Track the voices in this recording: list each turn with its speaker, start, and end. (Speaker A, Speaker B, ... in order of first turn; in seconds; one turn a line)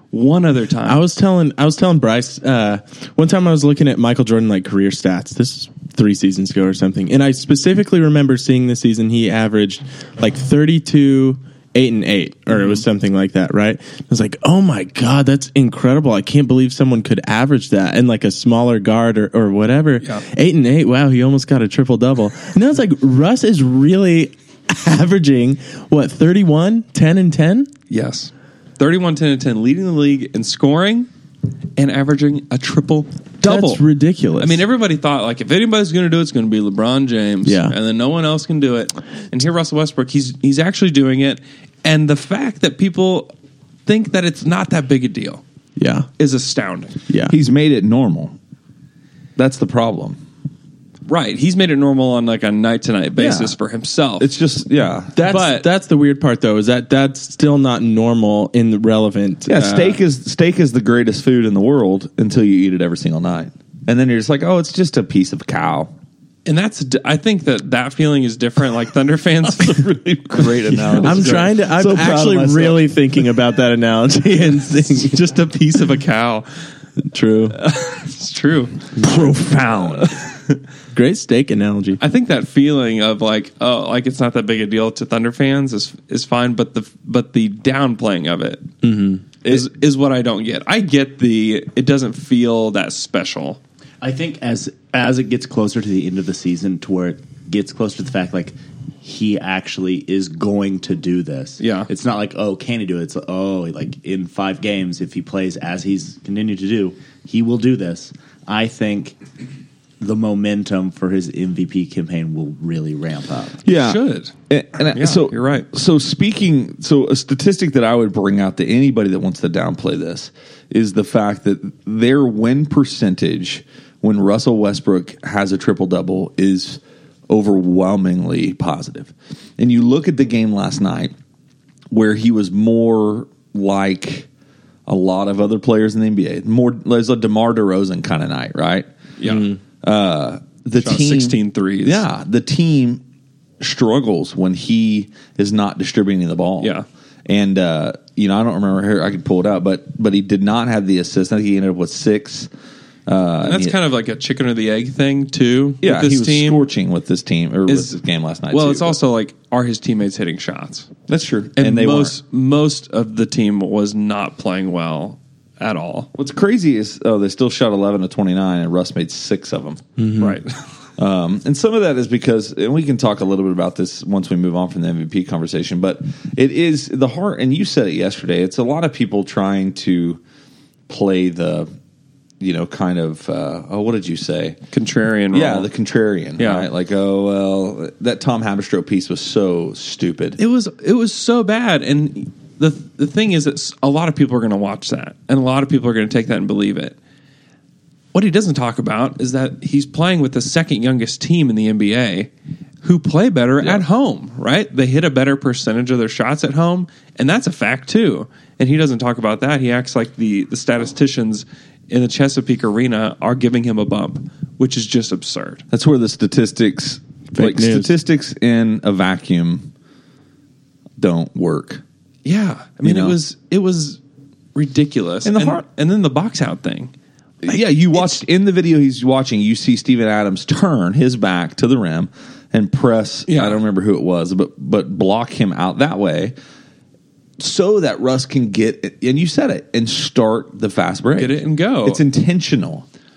Speaker A: 0.1-1.0
Speaker B: 0.8-27.7
Speaker A: 27.9-31.1
Speaker A: 31.8-33.8
Speaker B: 33.4-34.6
Speaker A: 34.4-43.3
Speaker B: 37.5-37.8
Speaker A: 43.9-45.4
Speaker B: 45.8-46.1
Speaker A: 46.2-47.0
Speaker B: 47.1-47.4
Speaker C: 47.3-48.4
Speaker C: 49.4-50.2
Speaker A: 51.1-54.3
Speaker C: 53.2-53.6
Speaker C: 54.2-55.2
Speaker B: 55.1-60.0
Speaker A: 55.2-55.7
Speaker C: 59.5-65.9
Speaker A: 66.5-71.5
Speaker C: 69.4-72.5
Speaker B: 71.0-75.2
Speaker D: 71.8-72.9
Speaker A: 74.8-76.5
Speaker B: 77.1-77.6
Speaker A: 77.5-78.9
Speaker C: 79.0-80.2
Speaker B: 79.0-79.3
Speaker A: 79.8-80.5
Speaker B: 80.9-82.0
Speaker A: 82.0-88.7
Speaker B: 88.8-89.2
Speaker A: 89.4-93.6
Speaker D: 94.0-109.2
Speaker A: 101.6-101.9
Speaker D: 110.0-113.6
Speaker C: 113.7-131.1
Speaker A: 113.7-114.3
Speaker A: 114.9-115.7
Speaker C: 131.9-134.3
Speaker C: 134.9-138.9
Speaker A: 139.2-139.6
Speaker C: 139.8-143.0
Speaker A: 140.8-142.1
Speaker C: 143.6-146.8
Speaker A: 146.6-146.8
Speaker C: 147.3-152.5
Speaker C: 153.1-153.8
Speaker A: 153.4-156.7
Speaker C: 155.8-159.0
Speaker A: 157.7-158.0
Speaker A: 158.5-160.9
Speaker C: 161.1-162.2
Speaker A: 161.6-166.1
Speaker C: 166.2-169.8
Speaker B: 170.0-170.4
Speaker A: 170.2-170.6
Speaker C: 171.0-180.2
Speaker C: 180.9-181.7
Speaker C: 182.4-184.6
Speaker A: 184.7-185.7
Speaker C: 185.3-190.4
Speaker A: 186.4-186.7
Speaker A: 190.4-197.0
Speaker A: 198.1-202.3
Speaker A: 202.8-215.6
Speaker C: 203.6-203.9
Speaker C: 215.7-219.7
Speaker B: 217.3-218.0
Speaker C: 221.0-221.8
Speaker A: 222.2-224.0
Speaker C: 222.8-223.2
Speaker A: 224.6-226.9
Speaker C: 225.2-225.6
Speaker C: 227.4-236.3
Speaker A: 227.9-228.2
Speaker A: 233.3-233.6
Speaker C: 237.4-242.9
Speaker A: 241.2-242.0